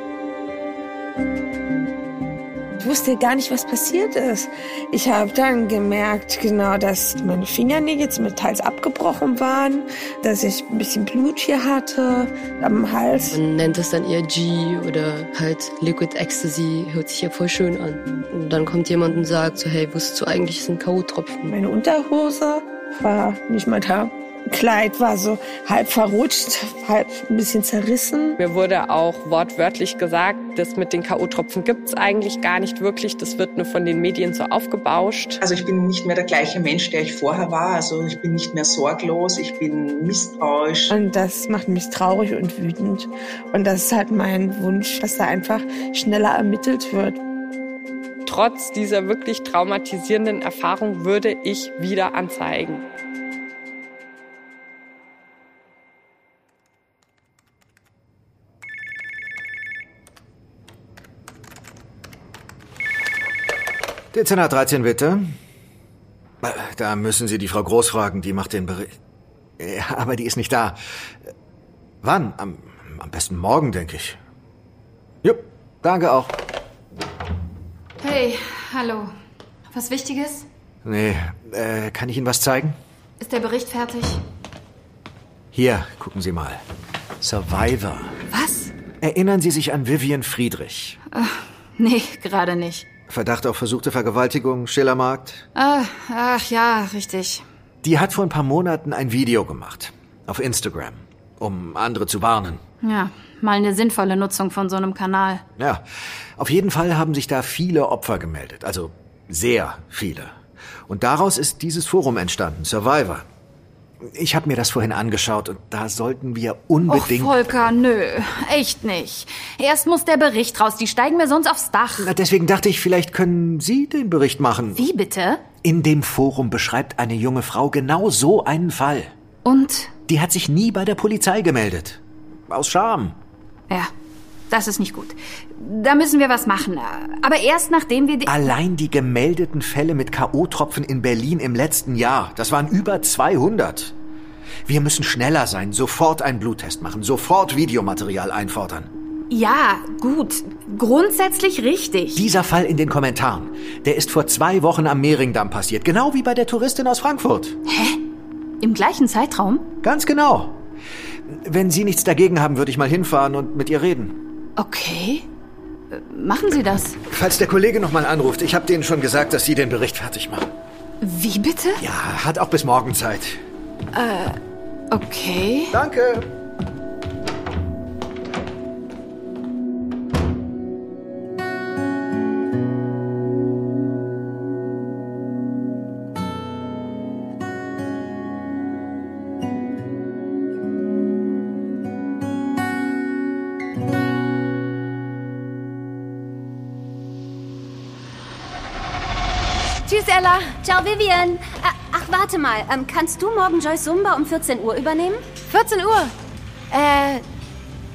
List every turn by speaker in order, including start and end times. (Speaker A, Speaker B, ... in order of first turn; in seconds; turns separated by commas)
Speaker A: 2.8-13.4, Speaker B: 13.3-21.6, Speaker A: 21.5-28.4, Speaker C: 28.4-35.4, Speaker D: 35.4-40.9, Speaker A: 40.9-47.2, Speaker C: 48.3-52.9, Speaker E: 64.1-65.3, Speaker E: 66.4-69.0, Speaker E: 69.6-70.8, Speaker E: 72.0-74.2, Speaker E: 75.2-76.3, Speaker F: 78.0-79.1, Speaker F: 79.7-80.5, Speaker E: 80.8-82.8, Speaker F: 83.2-84.2, Speaker E: 85.5-86.6, Speaker E: 87.2-88.2, Speaker F: 88.3-88.7, Speaker E: 89.0-91.0, Speaker F: 91.1-92.9, Speaker E: 93.1-95.5, Speaker F: 95.5-97.4, Speaker E: 97.8-102.6, Speaker F: 102.8-105.4, Speaker E: 105.6-105.8, Speaker E: 106.4-110.4, Speaker E: 110.9-113.3, Speaker E: 114.0-117.5, Speaker F: 116.9-122.1, Speaker E: 122.0-124.8, Speaker F: 124.8-125.4, Speaker E: 125.6-129.1, Speaker F: 129.4-129.9, Speaker E: 130.1-133.2, Speaker F: 134.5-138.4, Speaker E: 138.3-143.9, Speaker E: 144.7-148.9, Speaker F: 149.3-152.2, Speaker E: 152.2-157.6, Speaker F: 157.7-158.0, Speaker F: 158.6-159.7, Speaker E: 159.8-160.6, Speaker E: 161.3-164.2, Speaker F: 164.6-165.3, Speaker F: 165.9-167.0, Speaker E: 167.1-170.5, Speaker F: 171.0-171.8, Speaker E: 171.8-173.4, Speaker F: 173.9-174.4, Speaker F: 174.9-175.7, Speaker E: 175.7-176.3, Speaker G: 199.9-200.6, Speaker H: 200.6-205.2, Speaker G: 205.5-206.1, Speaker G: 206.7-207.2